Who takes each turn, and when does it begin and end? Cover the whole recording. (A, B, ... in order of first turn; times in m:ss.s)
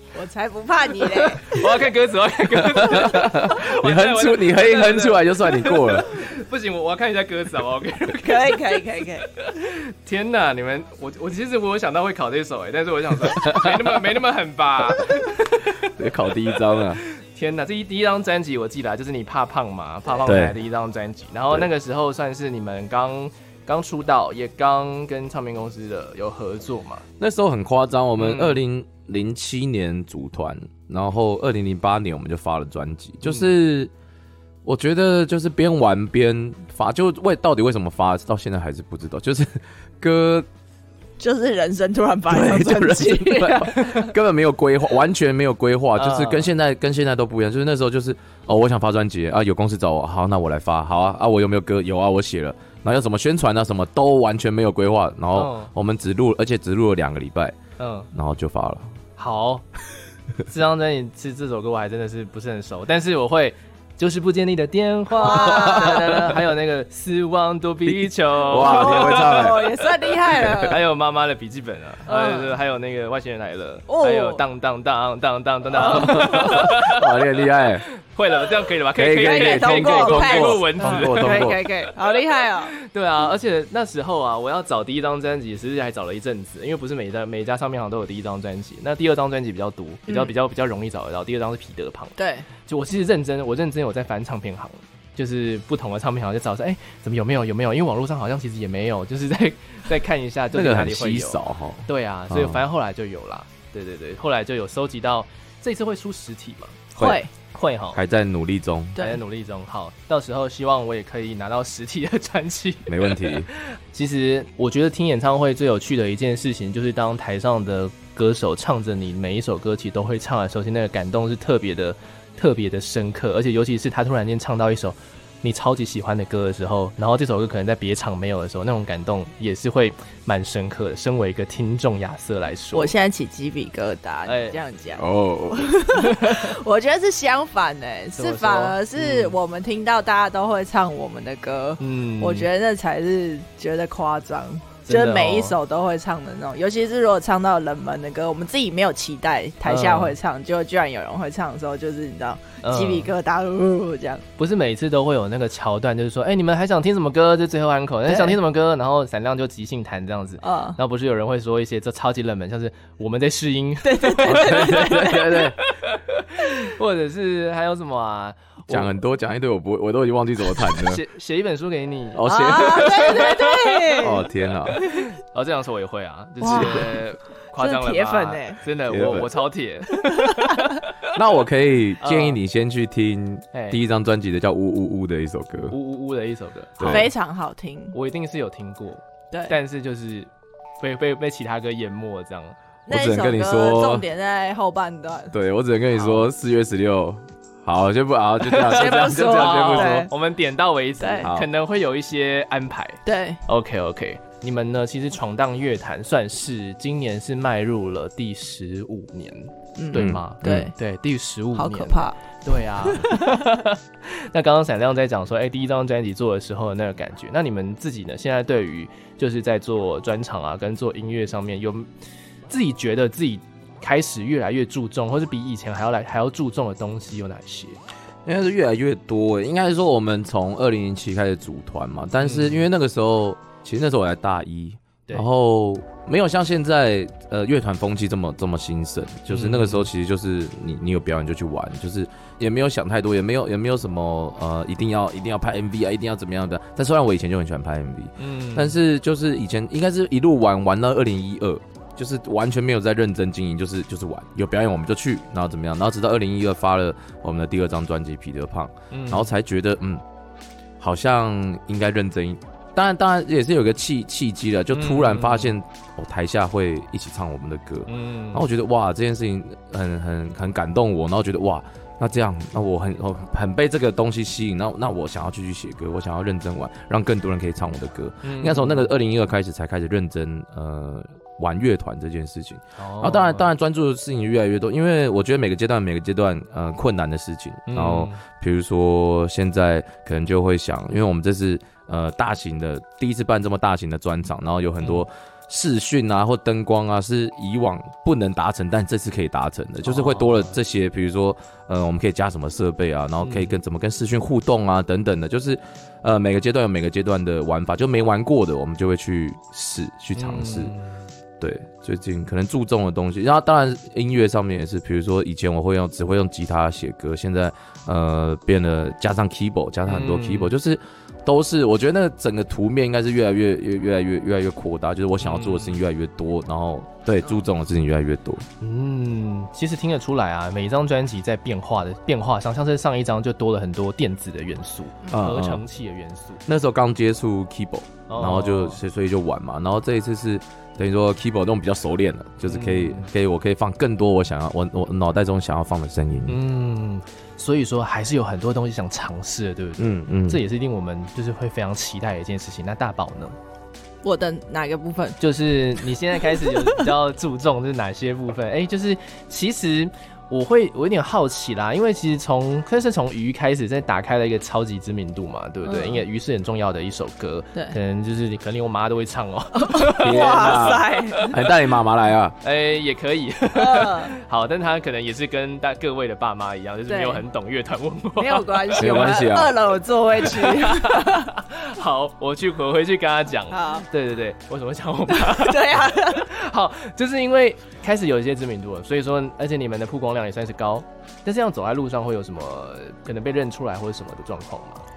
0:00.1-0:01.8 A
0:01.0-0:15.9 B
0:02.6-0:06.1 C
0:08.2-0:09.3 A
0:13.3-0:13.9 C
0:15.8-0:17.0 C
0:16.7-0:27.0 B
0:20.3-0:20.6 C
0:27.2-0:33.9 C
0:28.2-0:28.6 B
0:34.6-0:40.5 C
0:41.2-0:44.1 A
0:42.3-0:57.6 C
0:46.0-0:46.5 B
0:55.3-0:55.7 B
0:57.8-0:58.1 B
0:58.1-0:58.9 C
0:59.2-0:59.6 B
1:00.5-1:09.6 B
1:05.1-1:06.3 A
1:05.4-1:06.2 C
1:07.9-1:09.7 C
1:08.5-1:10.8 A
1:10.6-1:17.1 B
1:12.1-1:12.6 A
1:13.9-1:14.4 A
1:15.8-1:17.8 C
1:15.9-1:16.3 A
1:18.0-1:21.7 B
1:19.0-1:21.6 C
1:19.1-1:22.8 A
1:22.8-1:46.9 B
1:30.1-1:30.3 A
1:32.2-1:32.5 A
1:40.5-1:42.6 C
1:47.0-1:47.2 C
1:47.0-1:47.3 A
1:47.5-1:48.0 B
1:47.9-1:49.0 C
1:49.0-1:49.2 A
1:49.0-2:12.9 B
1:52.9-1:53.5 C
2:12.7-2:34.2 A
2:14.3-2:14.6 B
2:15.0-2:15.8 C
2:16.0-2:16.5 B
2:18.2-2:19.4 B
2:21.8-2:22.5 B
2:24.9-2:25.6 B
2:29.6-2:30.2 B
2:32.6-2:33.1 B
2:34.4-2:48.9 B
2:38.1-2:38.4 A
2:40.4-2:40.8 A
2:43.8-2:45.4 A
2:44.2-2:45.6 C
2:48.7-2:51.0 C
2:50.6-2:54.1 B
2:52.1-2:53.3 C
2:52.3-2:54.3 A
2:54.0-2:54.8 C
2:54.7-3:00.9 B
2:56.4-2:57.0 A
2:56.5-2:56.9 C
2:57.6-2:58.6 A
2:58.9-2:59.3 C
2:59.9-3:00.6 A
3:01.1-3:05.8 C
3:02.0-3:02.4 B
3:03.5-3:03.8 B
3:05.7-3:07.1 B
3:06.8-3:07.1 C
3:06.8-3:08.0 A
3:07.9-3:12.6 B
3:12.9-3:15.4 A
3:12.9-3:14.0 C
3:15.3-3:20.1 C
3:16.0-3:16.3 B
3:18.5-3:41.9 B
3:18.6-3:20.1 A
3:21.0-3:21.3 A
3:21.2-3:21.5 C
3:23.1-3:23.4 A
3:29.8-3:30.7 A
3:30.0-3:30.7 C
3:31.6-3:32.2 A
3:32.8-3:33.4 A
3:42.5-3:47.8 B
3:48.2-4:20.0 C
3:52.2-3:52.7 B
3:59.3-3:59.9 B
4:08.2-4:08.8 B
4:18.9-4:19.3 B
4:20.8-5:10.7 C
4:24.7-4:25.6 B
4:27.9-4:28.5 B
4:38.2-4:38.9 B
4:42.8-4:43.5 B
4:47.7-4:48.2 B
4:59.8-5:00.6 B
5:03.2-5:03.6 B
5:10.2-5:11.1 B
5:11.4-5:28.5 C
5:19.9-5:20.5 B
5:25.2-5:25.8 B
5:28.6-5:36.4 B
5:35.1-5:35.6 C
5:36.5-5:46.4 C
5:38.1-5:38.8 B
5:42.4-5:43.1 B
5:46.3-5:53.4 B
5:49.8-5:50.4 C
5:54.0-5:55.2 A
5:55.2-6:11.2 B
5:56.3-5:56.9 A
6:05.6-6:06.0 A
6:09.6-6:11.4 A
6:10.0-6:12.4 C
6:12.4-6:19.2 B
6:13.6-6:14.1 A
6:16.9-6:17.2 A
6:18.2-6:21.3 A
6:18.8-6:19.6 C
6:20.2-6:34.8 B
6:23.5-6:23.9 A
6:25.1-6:26.3 A